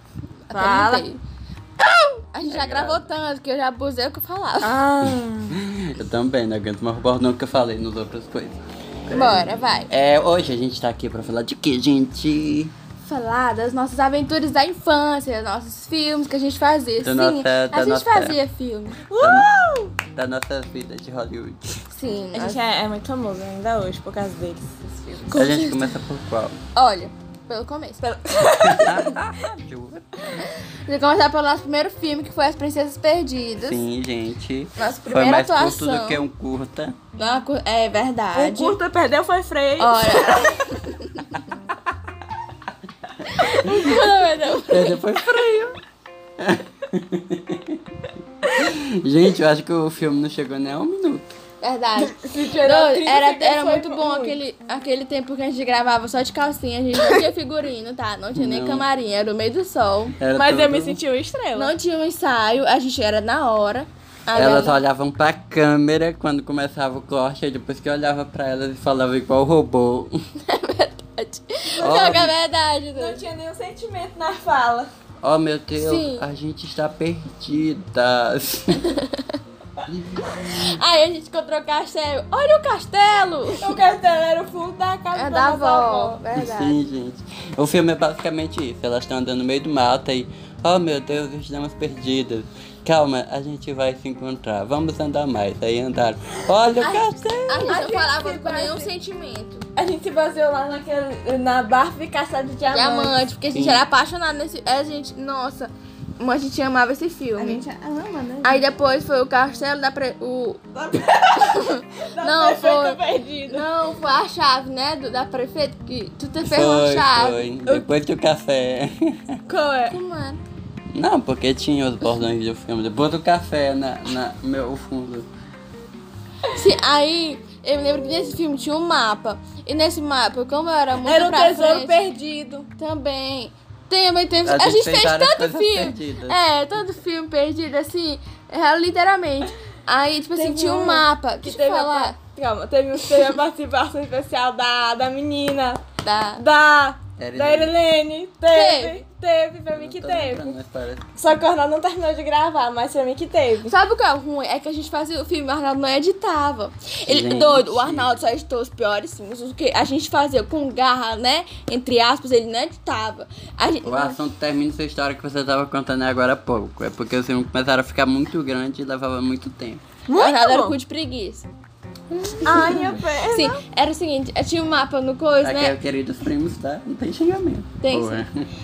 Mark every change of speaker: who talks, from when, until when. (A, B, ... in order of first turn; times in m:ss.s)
0:00.5-0:01.2 A
0:00.5-0:01.0 B
0:02.3-0:04.8 A
0:02.4-0:03.1 C
0:04.6-0:05.6 B
0:05.5-0:12.7 C
0:09.1-0:09.9 A
0:13.0-0:19.0 A
0:17.0-0:18.4 C
0:19.1-0:19.9 B
0:19.2-0:19.5 C
0:20.1-0:21.8 C
0:21.9-0:22.6 A
0:22.3-0:25.4 B
0:25.3-0:26.0 A
0:25.4-0:26.6 C
0:26.8-0:28.1 A
0:28.0-0:29.2 B
0:28.6-0:30.1 C
0:30.3-0:33.8 A
0:33.6-0:37.0 C
0:34.8-0:36.2 A
0:37.2-0:38.8 A
0:38.3-0:40.7 B
0:39.8-0:41.4 A
0:43.2-0:45.0 A
0:44.7-0:45.8 C
0:46.4-0:47.8 C
0:48.4-0:51.3 C
0:51.6-1:00.2 A
0:52.0-0:54.4 B
0:58.3-0:58.9 C
1:00.2-1:01.0 C
1:00.3-1:01.7 B
1:01.5-1:04.8 A
1:04.3-1:10.2 C
1:10.4-1:13.2 A
1:11.8-1:12.2 B
1:11.8-1:12.3 C
1:12.9-1:14.9 B
1:15.2-1:19.0 C
1:15.7-1:16.2 A
1:18.9-1:19.3 A
1:20.3-1:23.8 A
1:23.6-1:26.4 B
1:25.2-1:26.8 A
1:26.3-1:37.8 C
1:36.8-1:39.7 A
1:37.7-1:38.9 B
1:39.8-1:43.2 B
1:42.7-1:47.6 A
1:43.5-1:43.8 C
1:47.4-1:48.6 B
1:48.4-1:50.6 A
1:50.8-1:53.7 B
1:51.4-1:57.5 A
1:56.4-1:59.4 C
1:59.5-2:00.0 B
1:59.9-2:00.4 A
2:00.9-2:05.3 C
2:06.5-2:12.0 A
2:11.0-2:12.7 B
2:12.8-2:22.2 A
2:14.4-2:16.4 C
2:20.4-2:25.8 B
2:26.0-2:26.4 A
2:26.4-2:30.6 B
2:27.2-2:27.8 C
2:28.5-2:29.0 A
2:29.7-2:31.1 C
2:31.2-2:33.7 B
2:33.6-2:44.2 A
2:37.1-2:38.1 C
2:43.8-2:49.8 C
2:50.1-2:50.8 B
2:50.2-2:51.5 A
2:52.3-2:52.9 C
2:52.4-2:53.6 B
2:52.5-2:55.8 A
2:55.4-2:58.4 C
2:57.8-2:58.2 A